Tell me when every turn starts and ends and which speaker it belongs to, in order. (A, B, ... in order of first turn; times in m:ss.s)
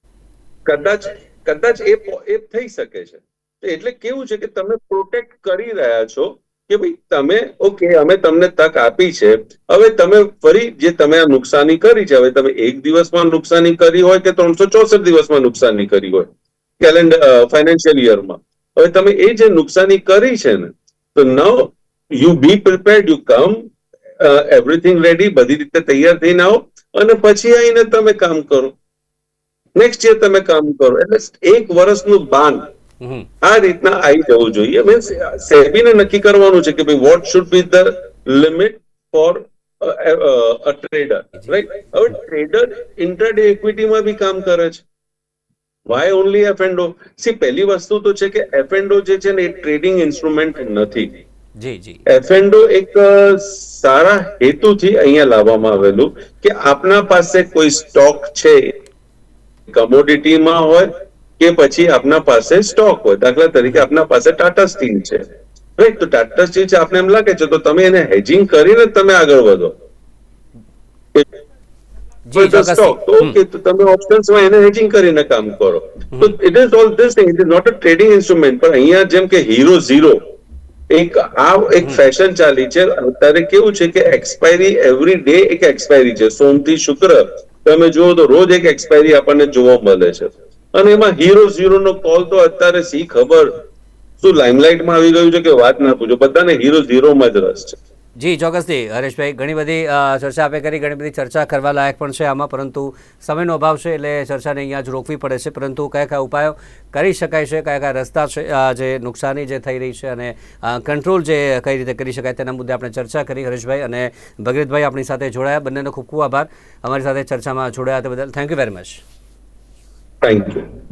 0:00.7-0:16.3 A
0:16.8-0:23.7 A
0:24.2-0:28.7 A
0:29.8-0:32.7 A
0:33.0-0:33.3 B
0:33.4-0:44.8 A
0:45.9-0:51.2 A
0:51.6-0:52.0 B
0:52.1-0:58.7 A
0:59.7-1:05.2 A
1:05.8-1:09.8 A
1:12.3-1:13.4 B
1:12.4-1:20.2 A
1:20.9-1:33.6 A
1:34.2-1:37.8 A
1:38.2-1:59.0 B
2:00.2-2:00.7 A